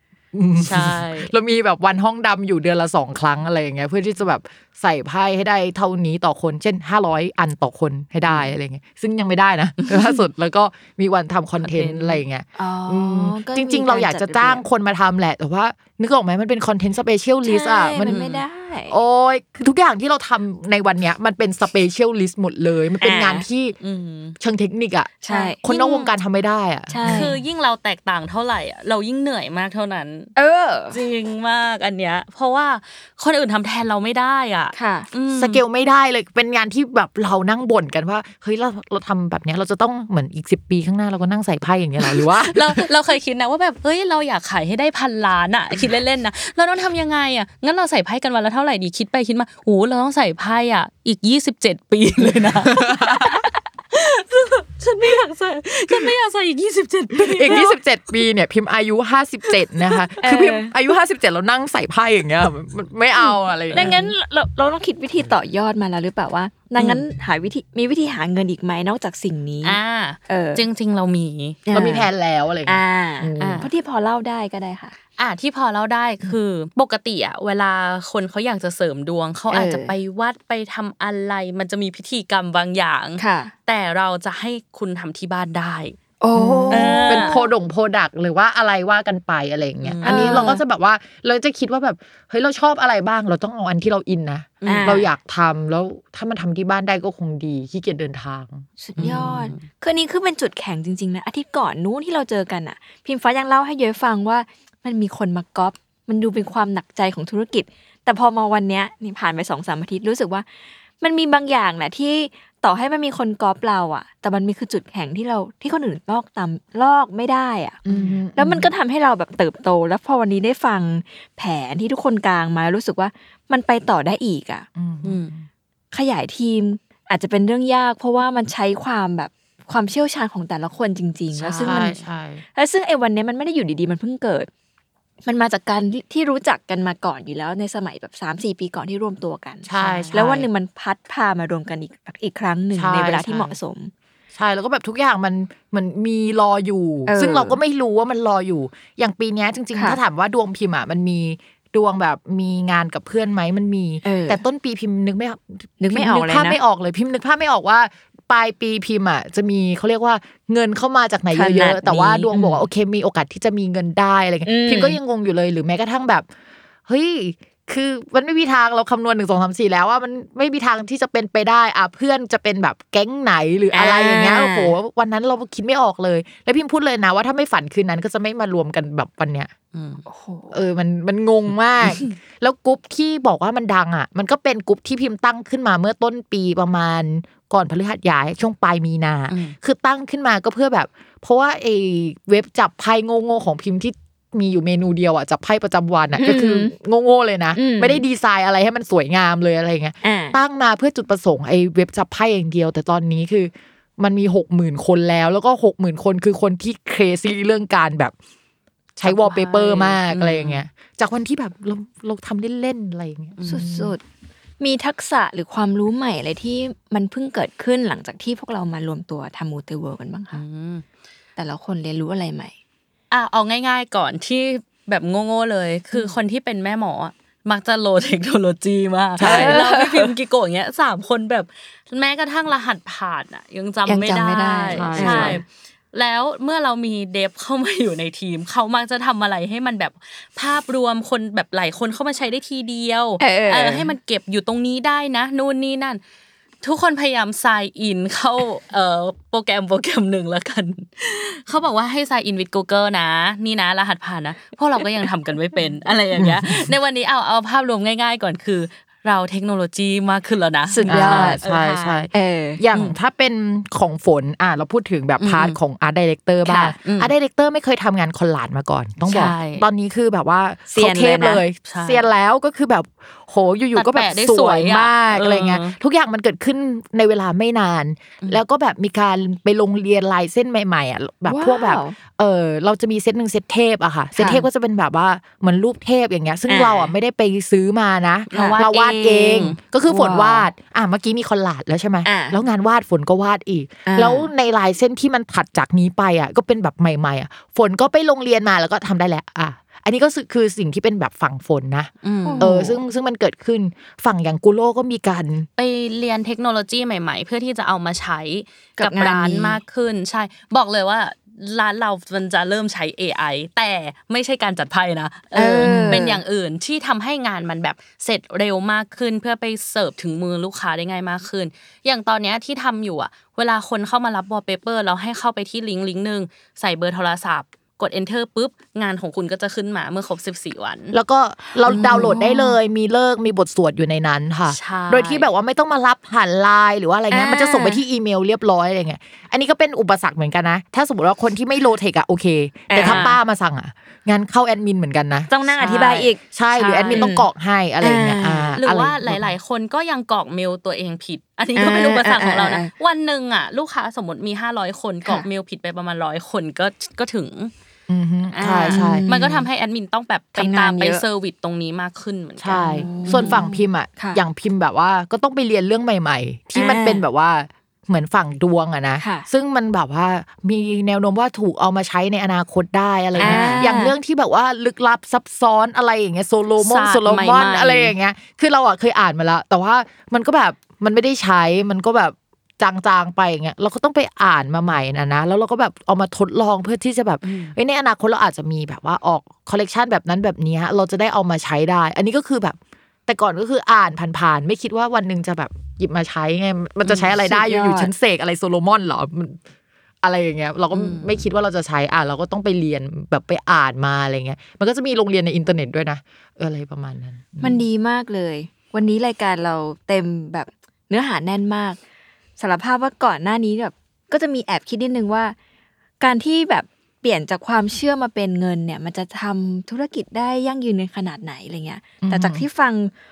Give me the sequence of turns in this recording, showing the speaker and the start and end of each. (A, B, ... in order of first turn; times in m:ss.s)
0:00.3-0:18.2 A
0:00.6-0:01.3 B
0:11.6-0:12.2 B
0:12.6-0:14.6 C
0:17.4-0:19.0 C
0:18.0-0:18.4 B
0:18.9-0:23.8 A
0:23.0-0:23.4 C
0:23.8-0:24.4 B
0:24.4-0:27.3 A
0:25.2-0:25.6 C
0:25.2-0:26.1 B
0:26.9-0:27.4 C
0:27.0-0:30.3 B
0:30.4-0:31.0 C
0:30.9-0:35.6 B
0:34.7-0:35.1 C
0:35.3-0:42.8 A
0:42.0-0:57.7 B
0:52.2-0:53.4 A
0:57.2-1:04.0 A
1:00.2-1:00.7 C
1:03.7-1:10.6 C
1:03.7-1:04.1 B
1:06.8-1:07.0 B
1:09.6-1:11.6 B
1:11.6-1:12.1 C
1:11.7-1:13.6 A
1:12.6-1:14.9 C
1:13.4-1:13.7 B
1:15.2-1:26.0 B
1:19.5-1:19.9 C
1:23.2-1:23.5 C
1:26.2-1:27.4 C
1:26.3-1:39.2 A
1:26.7-1:27.4 B
1:29.8-1:30.5 B
1:30.0-1:30.6 C
1:34.6-1:35.0 B
1:34.6-1:35.1 C
1:38.8-1:50.4 C
1:39.0-1:39.6 B
1:51.0-1:57.8 C
1:57.8-1:58.7 A
1:57.9-1:58.2 B
1:58.3-2:04.7 C
2:04.8-2:05.4 A
2:05.0-2:05.3 B
2:05.9-2:11.9 C
2:11.3-2:12.0 B
2:11.6-2:12.4 A
2:12.5-2:14.5 C
2:15.2-2:23.9 C
2:19.6-2:20.5 A
2:19.8-2:20.2 B
2:22.7-2:23.5 A
2:24.3-2:46.2 A
2:27.1-2:27.6 C
2:34.0-2:34.4 C
2:35.8-2:36.6 C
2:41.3-2:42.6 C
2:44.4-2:45.0 C
2:46.9-2:59.5 A
2:53.7-2:54.7 C
2:59.7-3:00.0 B
3:00.0-3:00.6 C
3:00.5-3:28.1 A
3:09.3-3:09.5 B
3:16.2-3:16.7 C
3:17.5-3:18.0 C
3:20.0-3:20.4 C
3:29.0-3:33.9 A
3:29.0-3:30.6 B
3:33.4-3:33.7 B
3:33.4-3:34.0 C
3:34.6-3:40.4 C
3:40.3-3:40.8 B
3:41.4-3:42.5 C
3:43.1-4:06.0 B
3:49.2-3:49.6 A
3:49.2-3:50.1 C
3:53.9-3:55.4 C
3:54.7-3:55.4 A
4:03.2-4:03.9 C
4:06.6-4:22.1 B
4:16.1-4:16.7 A
4:20.7-4:21.4 C
4:20.9-5:05.5 A
4:22.1-4:22.6 C
4:25.2-4:25.6 B
4:26.4-4:27.1 B
4:29.1-4:29.6 B
4:30.7-4:31.4 C
4:31.6-4:32.1 B
4:33.7-4:35.8 B
4:41.3-4:42.0 C
4:44.2-4:44.4 C
4:46.5-4:46.9 C
4:48.3-4:49.6 B
4:48.3-4:48.6 C
4:49.9-4:50.5 C
4:52.0-4:52.4 C
4:53.8-4:54.3 C
5:02.0-5:02.6 B
5:02.2-5:02.8 C
5:05.6-5:31.0 B
5:08.8-5:09.6 C
5:15.3-5:16.2 C
5:15.6-5:16.1 A
5:30.9-5:45.3 A
5:31.6-5:32.2 B
5:31.7-5:32.6 C
5:34.5-5:35.3 B
5:37.1-5:37.8 C
5:42.7-5:43.1 C
5:42.8-5:43.2 B
5:45.3-5:46.2 C
5:45.5-5:47.2 B
5:46.3-5:49.3 A
5:47.8-5:48.6 C
5:48.6-5:57.5 B
5:51.6-5:52.7 C
5:57.9-5:59.4 A
5:58.3-6:03.4 B
5:58.6-5:59.2 C
6:00.4-6:01.0 C
6:02.4-6:39.4 A
6:02.6-6:04.2 C
6:06.5-6:07.0 C
6:09.0-6:09.3 C
6:13.1-6:13.8 B
6:13.2-6:13.9 C
6:16.6-6:17.9 B
6:27.2-6:27.5 B
6:36.8-6:37.1 B
6:37.2-6:37.9 C
6:40.0-6:47.6 A
6:40.7-6:41.2 B
6:47.4-6:51.8 C
6:52.4-6:55.4 C
6:56.0-7:02.9 C
7:02.0-7:02.4 A